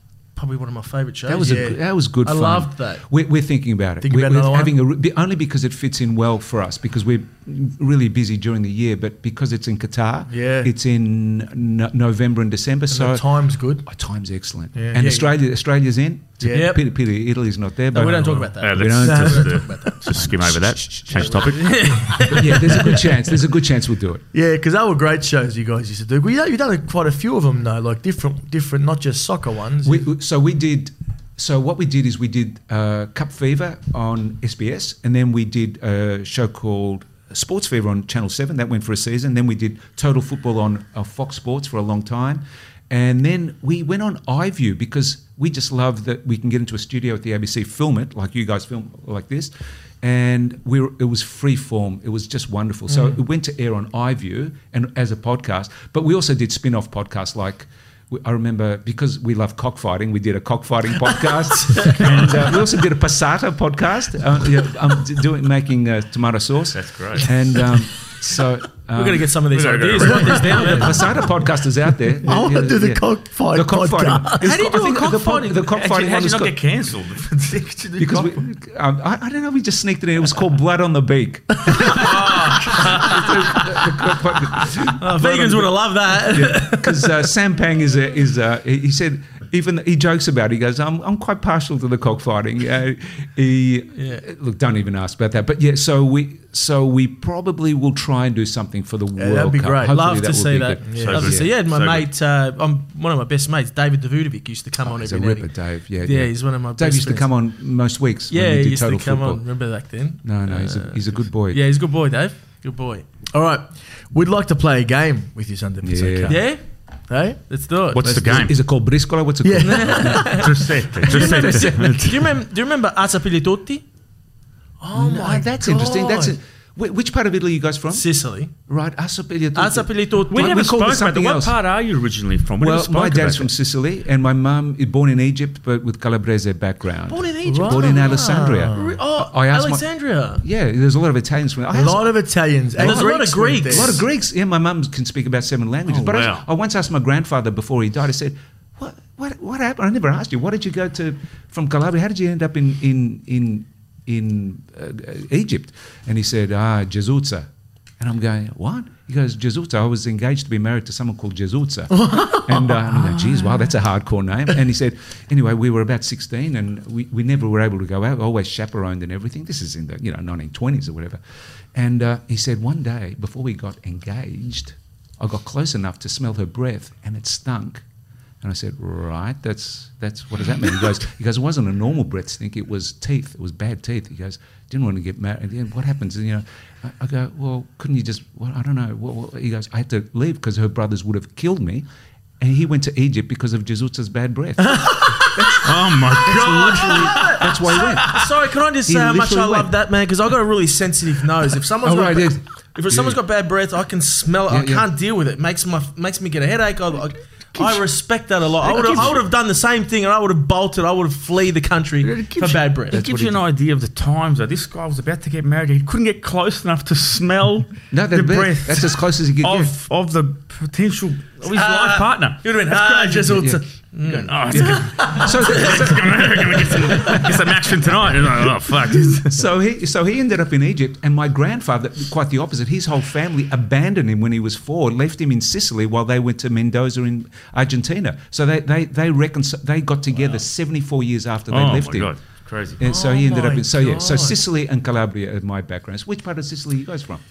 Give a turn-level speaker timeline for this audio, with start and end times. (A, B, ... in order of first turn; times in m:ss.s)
0:00.4-0:03.0 A
0:01.3-0:21.5 B
0:04.0-0:04.8 C
0:10.3-0:10.7 C
0:12.9-0:13.8 C
0:14.8-0:15.3 C
0:16.4-0:16.8 C
0:16.5-0:16.8 A
0:17.9-0:19.9 A
0:18.6-0:22.2 D
0:19.0-0:19.9 C
0:21.3-0:23.0 A
0:22.2-0:24.2 B
0:24.3-0:30.1 C
0:29.8-0:49.5 B
0:50.0-1:09.4 B
1:01.9-1:02.5 D
1:06.7-1:07.3 D
1:08.9-1:11.1 A
1:09.5-1:11.1 D
1:10.5-1:16.6 B
1:12.2-1:14.5 C
1:14.4-1:15.7 A
1:15.7-1:18.4 D
1:18.0-1:41.5 B
1:21.8-1:23.2 D
1:25.0-1:27.2 A
1:34.0-1:34.2 A
1:39.2-1:40.0 C
1:39.9-1:45.5 A
1:40.9-1:41.2 C
1:41.0-1:42.1 D
1:44.8-1:49.4 B
1:46.0-1:47.3 A
1:48.3-1:53.1 A
1:50.2-1:51.6 B
1:53.3-1:56.5 C
1:55.8-1:56.4 B
1:56.3-1:56.6 A
1:57.1-1:57.4 C
1:57.5-1:58.0 A
1:57.9-1:58.6 D
1:58.0-2:00.4 B
1:59.4-2:00.4 C
1:59.6-2:03.8 A
2:00.2-2:02.3 D
2:01.1-2:02.1 B
2:01.2-2:01.4 C
2:04.8-2:06.4 C
2:04.9-2:08.1 B
2:07.9-2:08.5 A
2:08.7-2:11.6 B
2:09.6-2:10.7 A
2:10.3-2:13.5 D
2:12.6-2:19.8 B
2:17.1-2:20.4 A
2:17.5-2:19.0 C
2:20.4-2:22.2 B
2:21.7-2:24.0 C
2:22.8-2:37.5 B
2:22.8-2:24.0 A
2:25.9-2:26.5 D
2:38.0-2:51.2 B
2:41.9-2:43.5 C
2:51.7-2:57.8 B
2:58.4-3:11.8 B
3:12.4-3:15.7 B
3:14.6-3:15.7 C
3:15.5-3:17.4 D
3:16.2-3:17.4 C
3:16.3-3:18.3 B
3:17.2-3:33.0 A
3:18.9-3:19.7 B
3:21.8-3:23.2 B
3:24.5-3:24.9 B
3:28.6-3:29.2 B
3:28.7-3:29.2 D
3:32.0-3:43.3 D
3:32.9-3:33.4 B
3:37.9-3:39.7 B
3:41.4-3:45.7 A
3:43.3-3:43.6 B
3:44.1-3:49.4 D
3:44.5-3:47.5 B
3:49.3-4:02.1 B
4:01.5-4:02.8 D
4:02.8-4:07.2 B
4:02.8-4:04.3 C